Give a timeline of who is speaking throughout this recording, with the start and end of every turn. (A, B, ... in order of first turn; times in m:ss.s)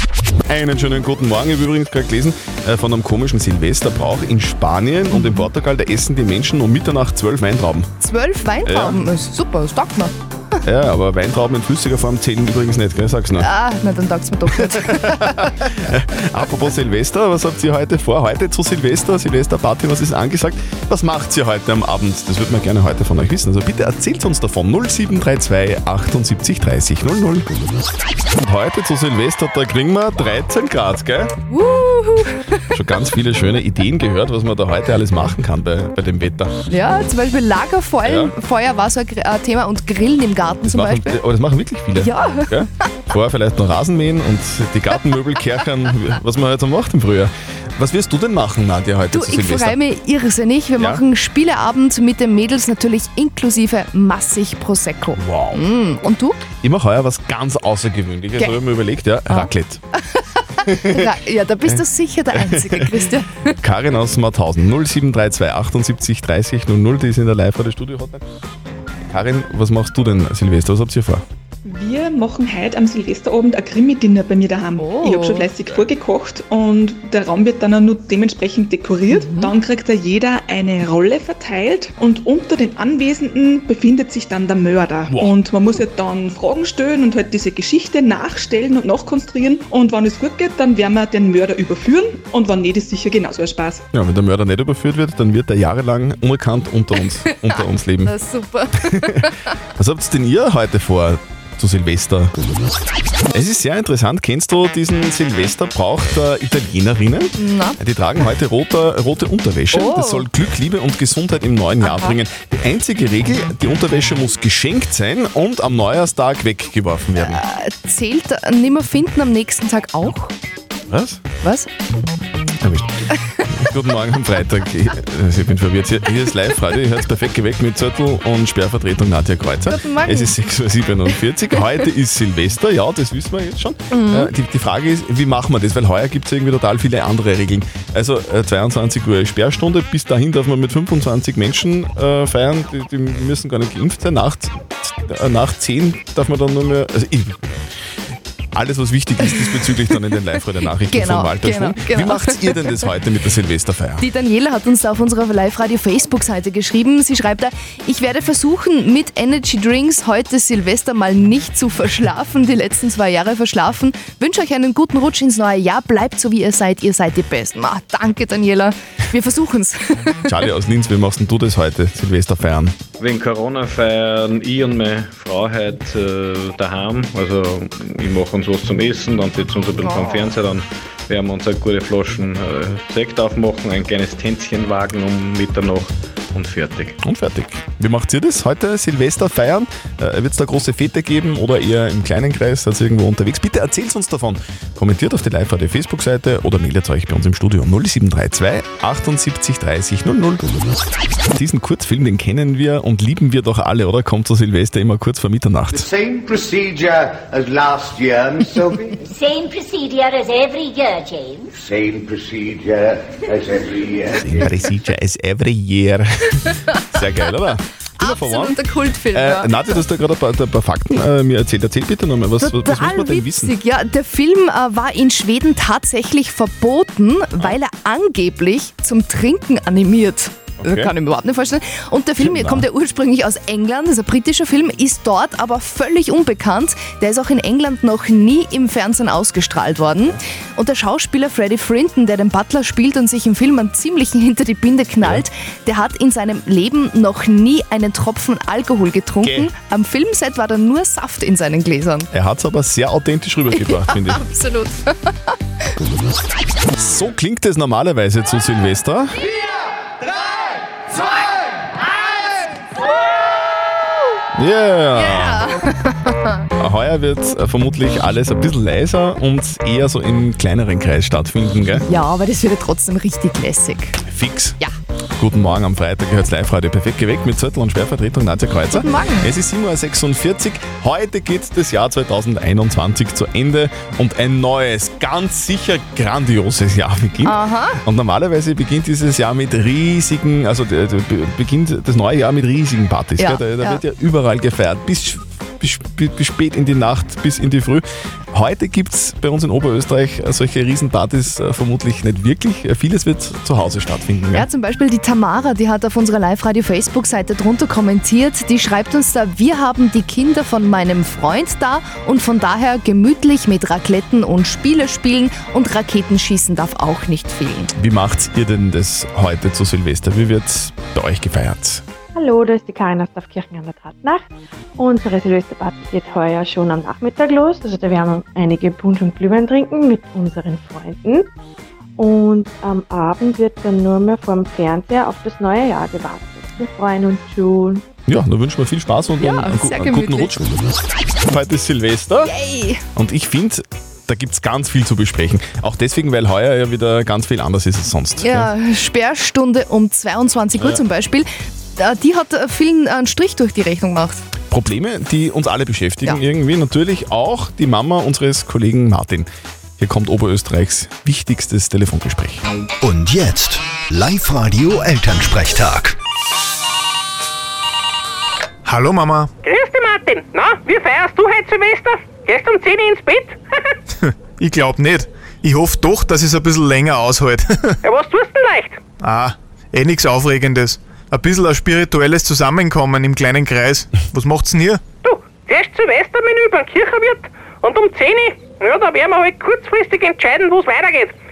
0:00.5-0:07.9 A
0:05.1-0:05.5 B
0:08.0-0:10.1 B
0:08.6-0:09.0 A
0:10.6-0:13.5 A
0:13.4-0:15.5 B
0:14.5-0:27.5 A
0:28.4-0:31.3 A
0:31.5-0:32.6 B
0:32.7-0:36.5 A
0:36.7-0:41.2 B
0:38.0-0:38.3 A
0:40.6-0:49.8 A
0:42.0-0:42.6 B
0:49.1-0:56.4 B
0:50.8-0:51.0 A
0:55.2-0:55.6 A
0:56.6-0:59.8 A
1:00.7-1:01.1 A
1:00.9-1:03.5 B
1:01.7-1:03.0 A
1:03.6-1:08.2 A
1:09.1-1:11.2 A
1:11.6-1:33.8 C
1:14.8-1:15.5 B
1:19.1-1:19.5 B
1:25.1-1:25.4 A
1:33.9-1:38.2 A
1:37.5-1:39.5 B
1:38.8-1:42.3 A
1:43.3-1:57.4 A
1:47.4-1:47.8 B
1:49.7-1:50.3 B
1:57.2-2:00.3 B
2:00.9-2:01.2 A
2:01.4-2:01.7 B
2:02.6-2:03.0 A
2:03.5-2:27.4 A
2:09.7-2:10.3 B
2:13.9-2:14.3 B
2:28.5-2:34.0 A
2:29.3-2:29.6 B
2:30.9-2:32.9 B
2:34.0-2:50.4 B
2:50.3-2:52.8 A
2:53.0-3:07.0 D
2:59.8-3:00.3 B
3:07.0-3:20.5 A
3:21.3-3:25.9 A
3:25.8-3:28.9 E
3:29.1-3:31.5 F
3:31.6-3:34.2 E
3:34.2-3:38.6 A
3:38.0-3:39.8 B
3:39.1-3:43.5 A
3:42.4-4:12.1 B
3:50.6-3:50.9 A
3:52.2-3:52.7 A
4:09.2-4:09.5 A
4:12.1-4:14.2 A
4:13.5-4:15.4 B
4:16.8-4:19.2 A
4:24.4-4:25.4 A
4:24.9-4:26.5 B
4:26.6-4:31.8 A
4:31.9-4:34.0 B
4:34.1-4:34.6 A
4:35.2-5:04.5 A
4:38.7-4:39.3 B
4:47.2-4:47.8 B
4:53.2-4:53.8 B
5:04.3-5:17.7 B
5:17.8-5:21.8 A
5:22.2-5:31.3 G
5:32.0-5:37.8 G
5:38.1-5:40.4 A
5:39.2-5:40.4 B
5:41.3-5:42.3 A
5:42.2-5:42.8 B
5:43.0-5:48.5 A
5:48.2-5:54.2 B
5:54.5-6:02.4 A
6:02.8-6:06.0 H
6:08.6-6:09.3 I
6:09.4-6:13.7 J
6:14.0-6:17.8 I
6:17.8-6:18.8 J
6:19.0-6:24.8 I
6:25.0-6:31.1 J